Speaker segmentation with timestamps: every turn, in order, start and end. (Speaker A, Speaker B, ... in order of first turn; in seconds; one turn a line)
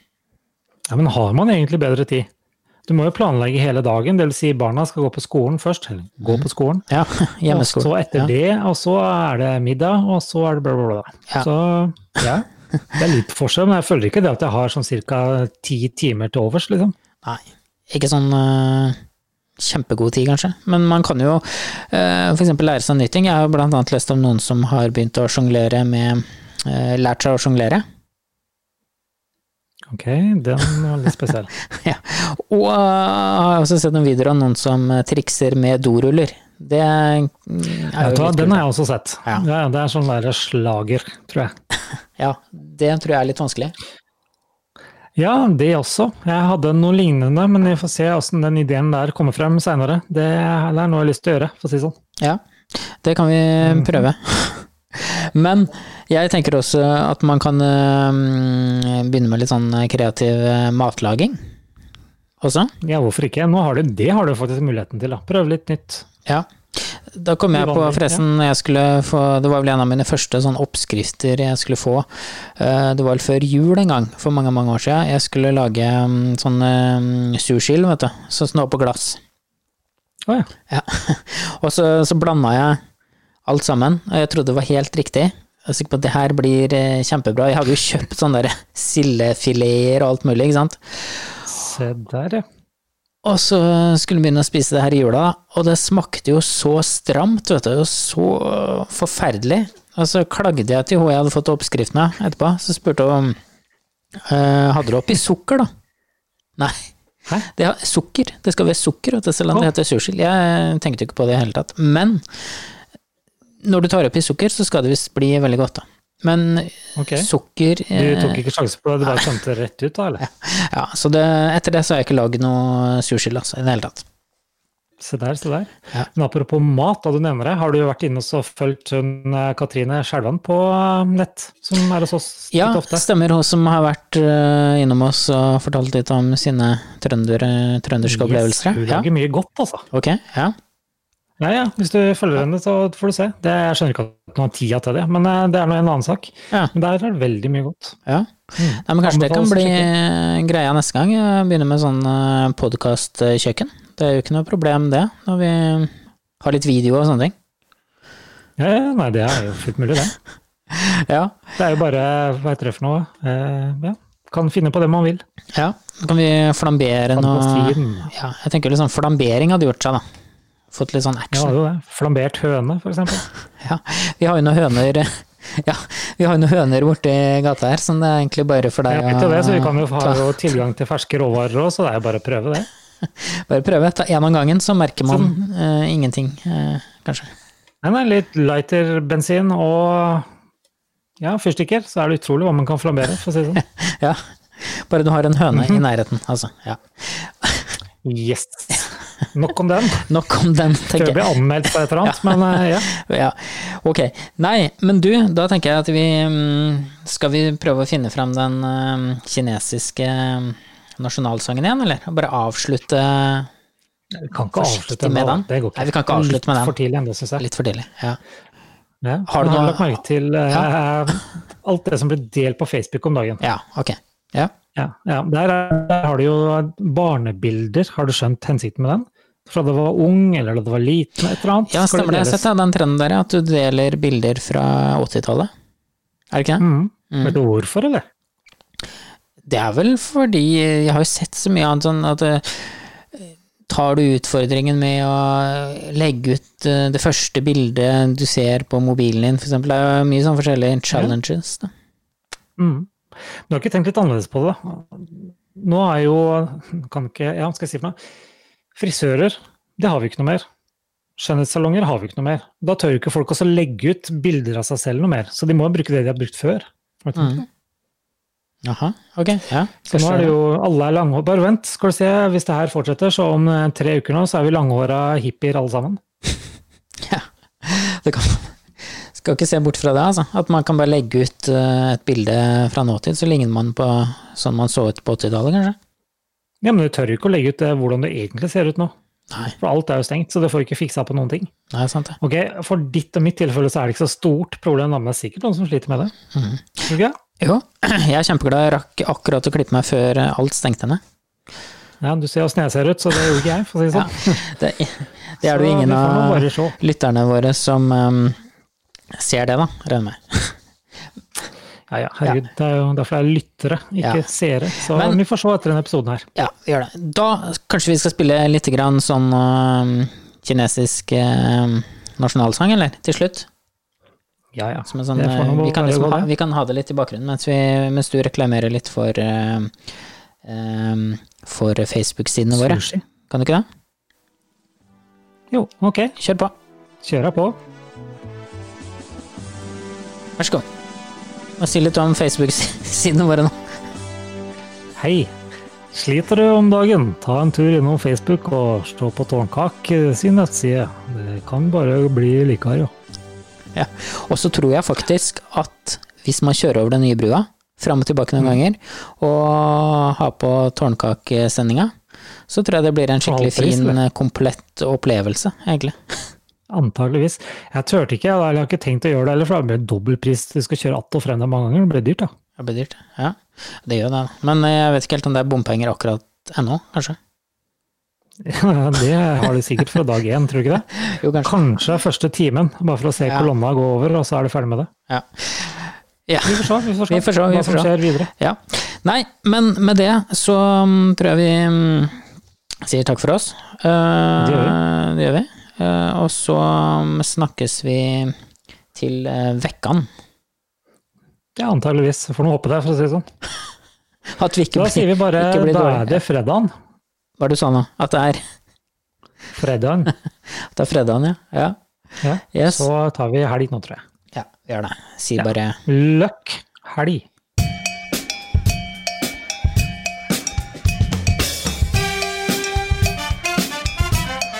Speaker A: 0.9-2.3
Speaker A: 2.9-6.8
Speaker B: 6.2-8.3
Speaker A: 7.5-16.9
Speaker B: 17.2-19.0
Speaker B: 19.6-27.8
Speaker A: 29.9-31.5
Speaker B: 31.6-38.6
Speaker A: 38.0-41.5
Speaker B: 42.2-43.7
Speaker A: 45.2-51.9
Speaker B: 52.2-61.4
Speaker A: 53.6-54.1
Speaker B: 62.4-62.7
Speaker A: 62.8-66.0
Speaker B: 66.2-79.2
Speaker A: 67.5-68.2
Speaker B: 80.7-82.8
Speaker B: 83.5-91.5
Speaker A: 91.5-92.4
Speaker B: 93.2-103.4
Speaker B: 104.2-105.7
Speaker B: 106.6-106.9
Speaker B: 107.4-112.7
Speaker B: 113.6-118.4
Speaker A: 117.0-117.3
Speaker A: 117.9-120.2
Speaker B: 119.0-119.3
Speaker B: 120.2-124.0
Speaker A: 125.0-133.0
Speaker B: 132.5-139.1
Speaker A: 138.0-139.8
Speaker B: 139.9-140.5
Speaker A: 141.4-148.0
Speaker B: 148.1-157.3
Speaker A: 148.6-149.9
Speaker A: 158.6-160.2
Speaker B: 160.7-161.3
Speaker A: 161.6-165.2
Speaker B: 165.5-170.0
Speaker A: 167.1-168.1
Speaker B: 170.7-171.5
Speaker A: 171.3-173.3
Speaker B: 173.6-180.3
Speaker A: 178.9-182.7
Speaker B: 183.0-187.3
Speaker A: 185.1-185.3
Speaker A: 187.8-190.2
Speaker A: 191.2-193.6
Speaker B: 193.6-197.8
Speaker A: 195.5-195.8
Speaker A: 198.0-200.1
Speaker B: 200.1-213.5
Speaker A: 200.9-202.9
Speaker A: 214.1-217.4
Speaker B: 214.5-216.7
Speaker B: 217.4-218.2
Speaker A: 219.0-223.4
Speaker B: 219.3-220.7
Speaker B: 223.4-224.5
Speaker A: 224.8-232.5
Speaker B: 231.7-235.5
Speaker B: 236.3-237.4
Speaker A: 236.6-238.0
Speaker B: 239.5-251.7
Speaker A: 252.6-252.9
Speaker A: 253.5-258.0
Speaker A: 258.8-260.4
Speaker A: 261.2-267.4
Speaker B: 267.1-267.4
Speaker B: 268.6-270.4
Speaker A: 269.9-276.0
Speaker B: 277.0-285.8
Speaker A: 286.6-288.9
Speaker B: 289.3-289.6
Speaker A: 289.6-291.5
Speaker B: 291.7-292.2
Speaker A: 292.2-296.1
Speaker B: 296.3-301.0
Speaker A: 296.9-297.2
Speaker A: 302.0-304.4
Speaker B: 303.9-308.4
Speaker A: 305.4-306.8
Speaker B: 309.1-310.6
Speaker A: 311.9-316.2
Speaker B: 314.0-314.2
Speaker B: 314.8-315.2
Speaker B: 316.4-323.5
Speaker A: 324.5-326.3
Speaker B: 324.9-329.7
Speaker B: 330.4-333.6
Speaker A: 332.5-333.0
Speaker A: 335.5-336.1
Speaker B: 336.1-336.5
Speaker A: 337.0-337.6
Speaker B: 340.4-340.6
Speaker B: 341.6-343.5
Speaker A: 345.0-345.3
Speaker A: 345.9-352.9
Speaker B: 353.7-361.9
Speaker B: 362.5-366.3
Speaker A: 363.2-364.0
Speaker A: 366.7-372.3
Speaker B: 372.6-377.2
Speaker A: 378.4-384.9
Speaker B: 381.0-381.6
Speaker B: 383.2-383.5
Speaker B: 385.1-392.2
Speaker A: 386.4-388.3
Speaker B: 392.8-398.3
Speaker A: 394.4-394.8
Speaker B: 398.9-400.1
Speaker A: 401.6-403.2
Speaker B: 404.4-406.2
Speaker A: 404.7-406.7
Speaker B: 407.4-408.4
Speaker A: 409.5-410.1
Speaker B: 410.5-411.8
Speaker A: 412.2-414.0
Speaker B: 412.5-412.9
Speaker B: 414.3-415.8
Speaker A: 415.4-417.2